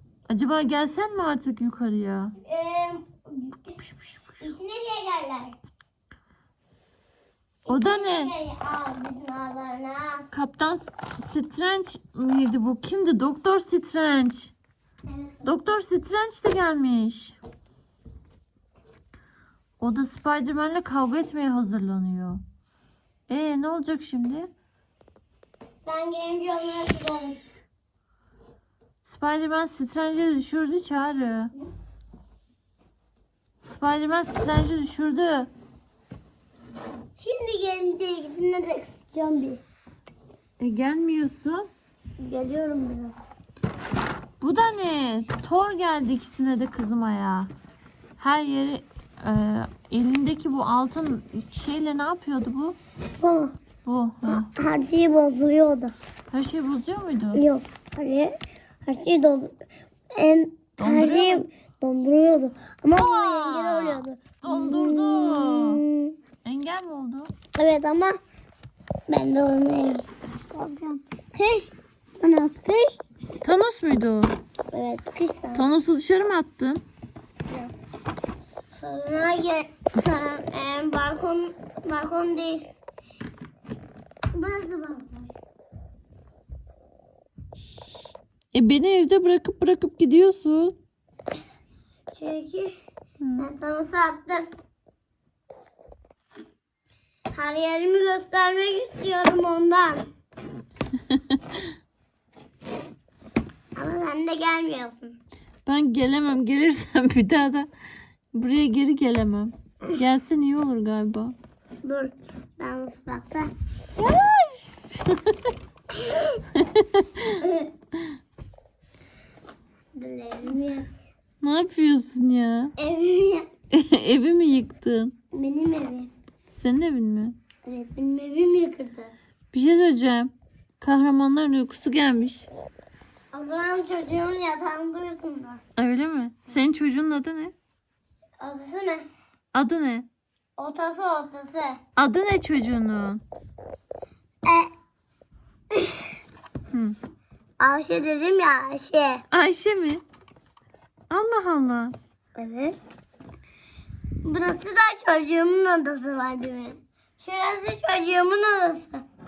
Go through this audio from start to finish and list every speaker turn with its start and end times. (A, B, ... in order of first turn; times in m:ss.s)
0:00.3-0:02.3 A
0:02.4-0:03.8 B
0:03.8-0:04.2 A
0:04.4-0:05.6 B
0:07.7-0:08.3 A
0:07.7-0:10.2 B
0:10.3-0:14.5 A
0:15.1-0:15.6 B
0:15.4-0:17.4 A
0:19.8-0:22.4 A
0:23.3-0:24.5 A
0:25.8-0:27.4 B
0:29.0-0:31.5 A
0:33.6-0:35.5 A
0:37.2-0:39.6 B
0:40.6-0:41.7 A
0:42.2-0:43.2 B
0:44.4-0:47.5 A
0:48.2-0:52.8 A
0:53.2-0:53.5 B
0:53.8-0:54.5 A
0:54.2-0:55.9 B
0:56.3-0:57.4 A
0:57.3-0:59.6 B
1:00.1-1:06.2 B
1:00.8-1:01.4 A
1:02.9-1:05.8 A
1:06.4-1:07.3 A
1:07.5-1:08.2 B
1:09.1-1:13.1 B
1:13.4-1:14.4 A
1:14.7-1:15.7 B
1:15.5-1:16.8 A
1:18.7-1:22.7 B
1:24.3-1:25.3 B
1:28.5-1:30.8 A
1:32.1-1:32.7 B
1:33.2-1:33.5 A
1:33.4-1:34.5 B
1:37.3-1:40.1 B
1:41.1-1:41.6 A
1:43.7-1:45.2 B
1:45.6-1:47.7 A
1:48.3-1:51.3 A
1:51.8-1:53.5 B
1:54.0-1:55.5 A
1:56.0-1:56.4 B
1:56.5-1:57.4 A
1:57.4-1:57.7 B
2:00.0-2:00.9 B
2:01.4-2:02.7 A
2:02.8-2:03.5 B
2:03.7-2:05.1 A
2:05.3-2:06.1 B
2:06.5-2:07.4 A
2:07.6-2:09.1 B
2:09.5-2:12.5 A
2:13.3-2:15.6 B
2:15.8-2:17.5 A
2:18.4-2:19.0 B
2:19.5-2:20.1 A
2:20.6-2:21.8 B
2:22.0-2:23.2 A
2:24.4-2:24.7 B
2:25.7-2:26.0 B
2:26.7-2:27.0 A
2:27.6-2:29.2 B
2:29.3-2:30.0 A
2:31.1-2:31.9 A
2:32.4-2:32.8 B
2:34.2-2:39.0 B